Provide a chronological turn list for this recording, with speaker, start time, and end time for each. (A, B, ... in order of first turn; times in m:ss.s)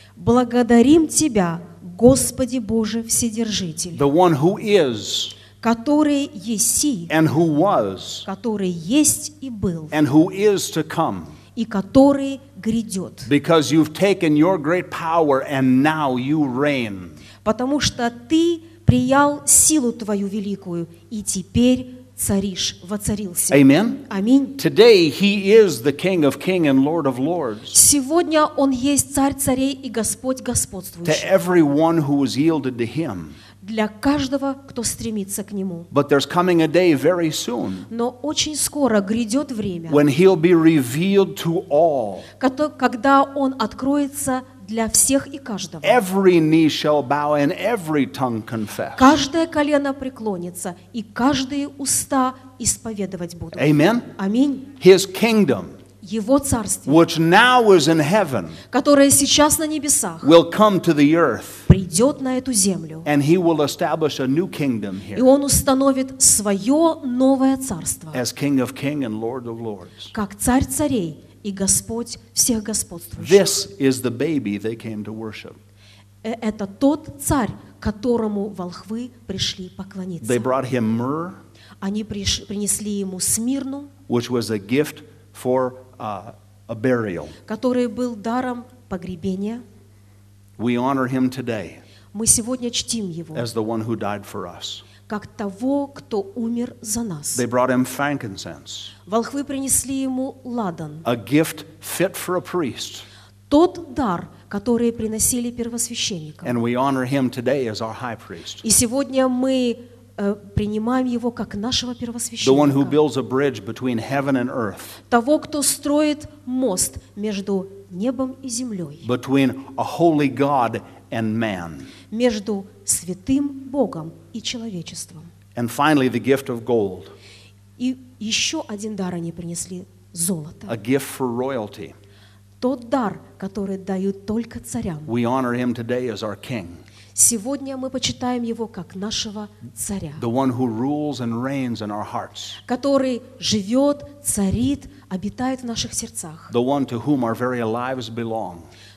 0:00.2-0:04.0 A
0:03.9-0:05.4 B
0:05.6-0:07.1 A
0:07.1-0:08.3 B
0:08.3-0:10.0 A
0:09.9-0:11.4 B
0:11.6-0:13.3 A
0:13.3-0:17.2 B
0:17.4-0:24.6 A
0:23.5-0:24.0 B
0:24.6-0:27.8 B
0:27.7-0:31.3 A
0:31.0-0:33.4 B
0:33.6-0:35.9 A
0:35.9-0:37.9 B
0:37.9-0:40.0 A
0:39.9-0:42.3 B
0:42.4-0:46.0 A
0:45.8-0:49.2 B
0:49.0-0:54.7 A
0:53.6-0:54.1 B
0:54.7-0:55.7 B
0:56.0-0:57.0 A
0:56.9-0:58.6 B
0:58.7-1:00.3 A
1:00.2-1:01.7 B
1:01.7-1:03.1 A
1:03.1-1:05.3 B
1:05.2-1:08.2 A
1:08.1-1:10.1 B
1:10.1-1:13.5 A
1:13.2-1:15.6 B
1:16.2-1:20.5 A
1:20.2-1:21.4 B
1:21.8-1:23.9 A
1:24.1-1:27.4 B
1:27.5-1:29.6 A
1:30.6-1:31.8 B
1:32.1-1:33.5 A
1:33.4-1:34.9 B
1:35.1-1:37.4 A
1:37.3-1:38.9 B
1:39.1-1:41.0 A
1:41.0-1:43.0 B
1:43.5-1:46.6 A
1:46.4-1:48.6 B
1:48.6-1:53.0 A
1:52.4-1:55.0 B
1:55.1-1:59.1 A
1:59.0-2:01.9 B
2:02.1-2:05.3 A
2:05.6-2:07.1 B
2:07.8-2:10.8 A
2:10.7-2:12.0 B
2:12.6-2:15.1 A
2:15.1-2:16.8 B
2:17.2-2:20.2 A
2:20.2-2:22.6 B
2:22.6-2:26.5 A
2:26.5-2:28.7 B